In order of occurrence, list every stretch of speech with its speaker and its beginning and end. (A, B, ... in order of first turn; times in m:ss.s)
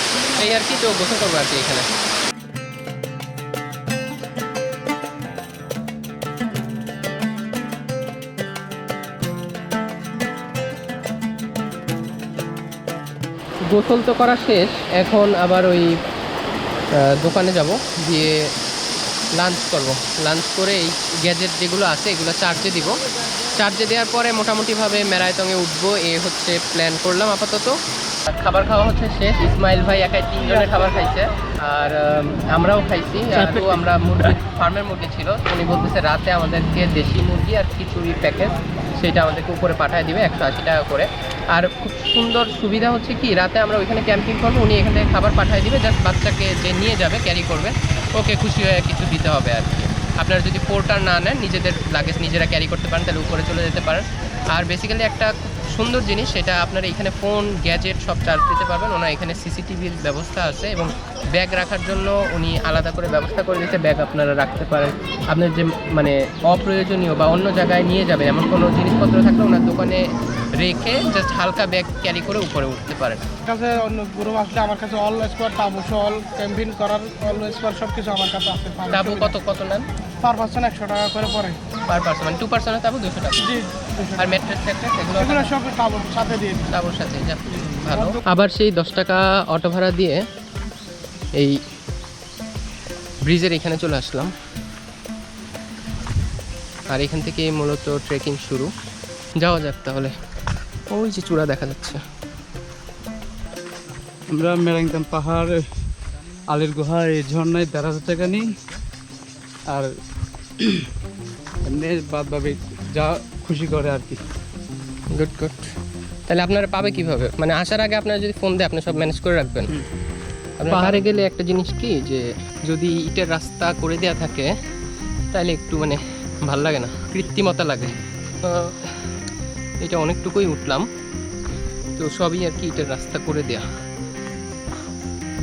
0:00.3-0:01.9 A
0:13.7-0:15.9 A
0:17.0-0:18.4 A
0:19.4-0:23.0 A
0:23.5-0:27.8 A
0:28.3-1:13.2 A
1:13.4-1:19.3 B
1:18.9-1:19.9 A
1:20.2-1:21.6 B
1:21.9-1:23.6 A
1:23.4-1:24.2 B
1:24.2-1:25.6 A
1:25.2-1:26.7 B
1:26.7-1:30.3 A
1:31.4-1:31.6 A
1:33.2-1:34.3 A
1:36.9-1:38.7 A
1:39.4-1:40.2 A
1:40.9-1:42.0 A
1:44.4-1:45.7 C
1:46.5-1:48.5 C
1:50.6-1:50.9 C
1:51.6-1:54.2 C
1:55.1-1:55.7 A
1:56.3-1:59.7 A
2:00.6-2:04.6 A
2:05.3-2:09.1 A
2:09.8-2:10.9 A
2:12.0-2:13.7 A